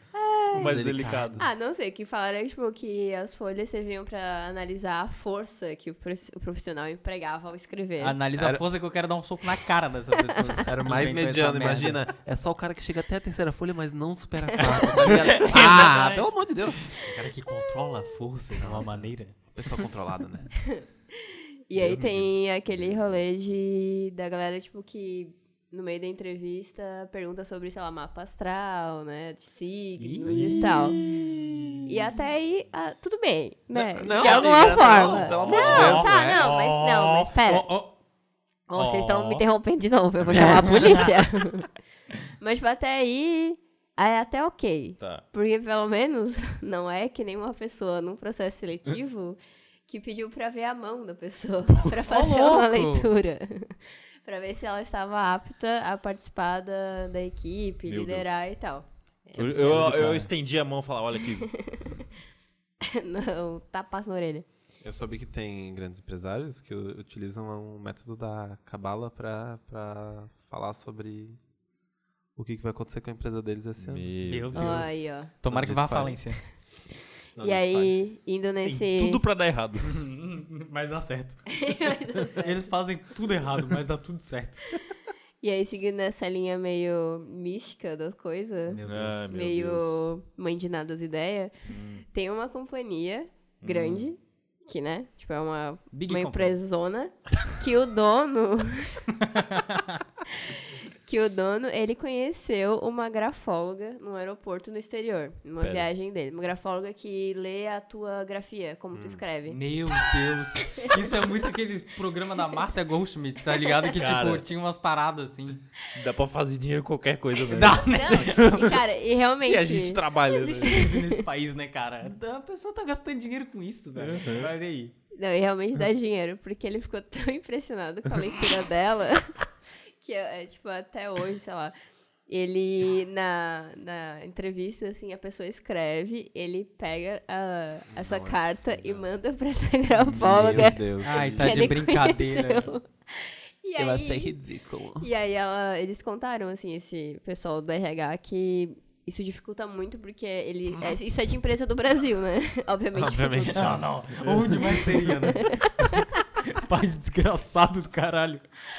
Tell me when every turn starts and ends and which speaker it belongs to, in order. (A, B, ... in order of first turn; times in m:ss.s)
0:00.1-0:00.7 A
0:00.5-0:01.5 B
0:00.6-0:01.4 C
0:01.4-0:08.2 A
0:08.0-0:12.0 D
0:08.4-0:08.6 C
0:10.6-0:17.0 C
0:14.6-0:14.9 A
0:14.8-0:16.4 D
0:17.0-0:19.4 D
0:18.6-0:20.5 C
0:20.7-0:31.0 A
0:21.8-0:22.2 C
0:21.8-0:23.2 B
0:30.0-0:30.7 D
0:30.3-0:31.8 B
0:31.9-0:37.7 A
0:34.0-0:36.5 C
0:34.2-0:36.0 B
0:35.6-0:38.0 D
0:38.7-0:41.7 A
0:38.7-0:39.4 D
0:42.4-0:59.9 A
0:45.0-0:45.2 B
0:52.0-0:53.1 D
0:57.9-0:58.4 B
0:59.3-1:01.6 B
0:59.4-1:00.3 D
1:01.4-1:02.0 A
1:02.8-1:04.4 A
1:04.8-1:11.4 C
1:12.4-1:14.1 C
1:13.8-1:16.2 B
1:14.3-1:16.4 D
1:14.6-1:15.3 A
1:15.6-1:16.1 C
1:17.4-1:18.0 C
1:17.4-1:19.2 A
1:18.6-1:19.9 B
1:19.8-1:21.5 D
1:21.6-1:22.7 A
1:22.4-1:24.6 D
1:25.4-1:31.6 A
1:28.7-1:29.3 D
1:28.8-1:30.1 B
1:31.7-1:32.0 B
1:32.1-1:39.2 A
1:33.6-1:34.1 B
1:35.9-1:36.6 D
1:39.3-1:40.0 D
1:40.5-1:49.6 A
1:45.6-1:45.9 B
1:48.9-1:49.2 C
1:49.5-1:55.6 D
1:53.9-1:54.4 B
1:55.9-1:58.6 B
1:57.5-1:58.4 D
1:57.9-2:01.2 A
1:59.4-2:00.9 B
2:00.3-2:04.9 D
2:04.0-2:04.5 B
2:05.1-2:09.4 A
2:10.0-2:11.7 A
2:12.3-2:24.4 A
2:17.9-2:19.1 C
2:20.1-2:21.7 B
2:20.2-2:21.7 C
2:21.0-2:22.7 D
2:23.8-2:25.1 C
2:25.0-2:33.8 A
2:32.9-2:34.3 C
2:33.6-2:35.9 D
2:35.4-2:35.7 A
2:36.5-2:38.4 D